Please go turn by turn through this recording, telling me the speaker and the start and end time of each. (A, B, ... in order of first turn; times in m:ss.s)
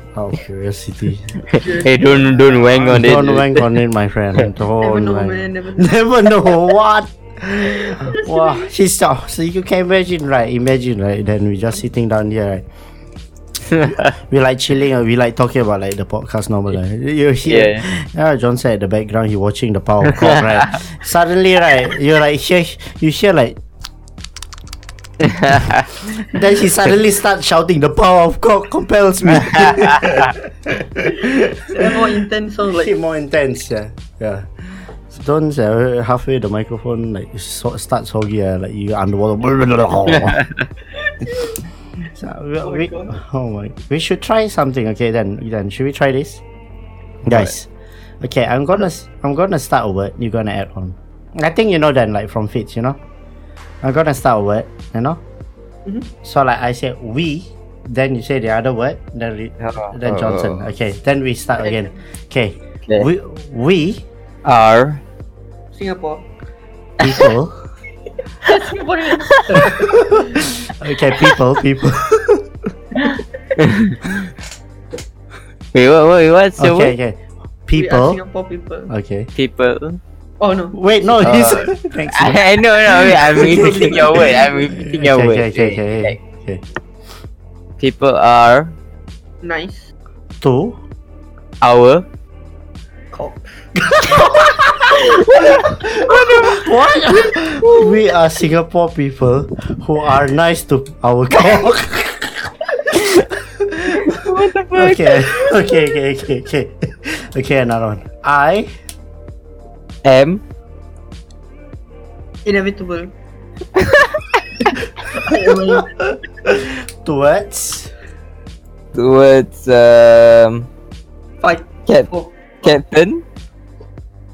0:00.2-0:01.4 A
0:01.5-0:03.0 B
0:01.5-0:03.7 C
0:02.8-0:12.6 A
0:04.8-0:06.7 B
0:07.7-0:08.7 B
0:13.7-0:14.0 C
0:13.9-0:23.6 A
0:17.5-0:17.8 C
0:25.2-0:25.8 C
0:26.2-0:32.0 A
0:29.4-0:30.3 C
0:31.2-0:32.9 B
0:32.8-0:40.4 A
0:40.1-0:40.6 C
0:41.0-0:41.6 B
0:42.1-0:46.4 A
0:42.6-0:43.2 B
0:47.2-0:47.7 A
0:48.2-0:53.0 A
0:53.8-0:55.2 A
0:56.2-1:04.1 A
0:59.6-1:00.7 C
1:01.6-1:02.0 B
1:04.4-1:05.0 C
1:05.7-1:06.2 B
1:07.0-1:07.6 A
1:07.0-1:07.3 C
1:08.4-1:10.4 B
1:09.2-1:09.7 C
1:09.5-1:12.5 A
1:13.6-1:14.0 C
1:15.7-1:17.0 C
1:16.6-1:18.2 A
1:17.7-1:18.9 B
1:18.9-1:19.3 A
1:19.4-1:20.0 C
1:20.4-1:20.8 B
1:20.7-1:26.6 A
1:21.2-1:26.2 C
1:23.5-1:24.5 B
1:27.8-1:28.8 C
1:29.4-1:29.9 B
1:30.4-1:30.8 A
1:31.6-1:32.0 C
1:33.1-1:33.7 B
1:33.8-1:44.2 A
1:35.2-1:36.7 B
1:35.3-1:36.7 C
1:37.3-1:37.8 C
1:44.0-1:45.7 C
1:44.7-1:48.7 A
1:50.0-1:50.4 C
1:52.4-1:53.1 B
1:53.8-1:54.3 C
1:54.6-1:55.9 B
1:55.3-1:57.9 A
1:58.9-2:00.7 C
2:01.4-2:02.7 B
2:02.6-2:03.2 C